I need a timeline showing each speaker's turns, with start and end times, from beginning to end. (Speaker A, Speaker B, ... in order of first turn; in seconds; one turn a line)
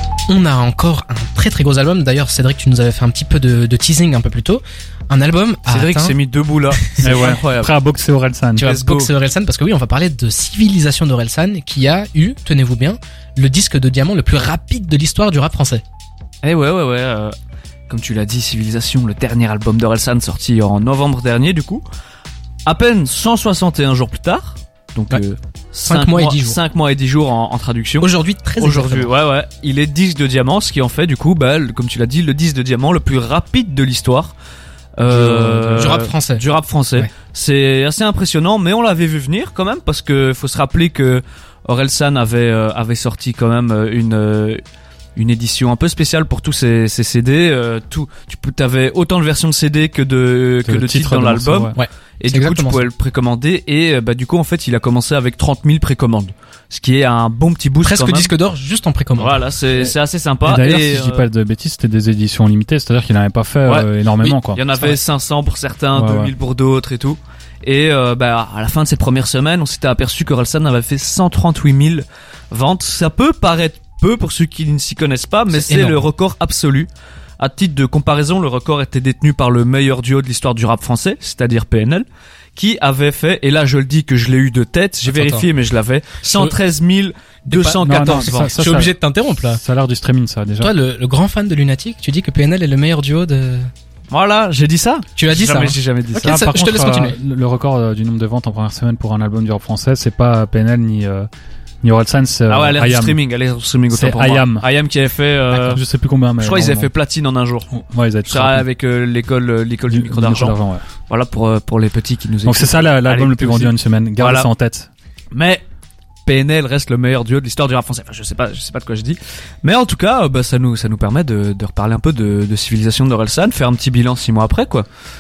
Speaker A: 0.3-6.2
Speaker B: 5.7-7.7
Speaker A: 6.7-7.1
Speaker C: 7.0-8.7
Speaker A: 8.6-15.8
Speaker B: 8.6-9.1
Speaker B: 16.4-17.3
Speaker B: 17.9-21.8
Speaker B: 22.6-34.3
Speaker A: 25.8-26.6
Speaker A: 28.0-29.1
Speaker B: 35.0-44.6
Speaker C: 35.1-36.0
Speaker A: 35.8-36.4
Speaker B: 45.1-58.3
Speaker C: 50.6-51.8
Speaker A: 51.7-52.9
Speaker A: 57.8-59.4
Speaker B: 59.2-61.3
Speaker C: 60.4-64.6
Speaker B: 63.6-88.5
Speaker C: 65.9-66.3
Speaker A: 75.5-76.0
Speaker A: 85.1-85.5
Speaker A: 87.5-89.6
Speaker C: 87.8-90.7
Speaker A: 90.6-93.7
Speaker B: 94.1-96.4
Speaker A: 95.2-97.2
Speaker C: 96.2-101.3
Speaker C: 101.8-103.2
Speaker B: 102.5-105.8
Speaker C: 103.9-104.7
Speaker C: 105.5-106.9
Speaker B: 106.4-107.7
Speaker C: 107.7-108.6
Speaker B: 108.3-110.5
Speaker C: 109.9-110.8
Speaker B: 111.1-114.5
Speaker C: 112.4-114.9
Speaker B: 115.3-115.6
Speaker B: 116.2-124.8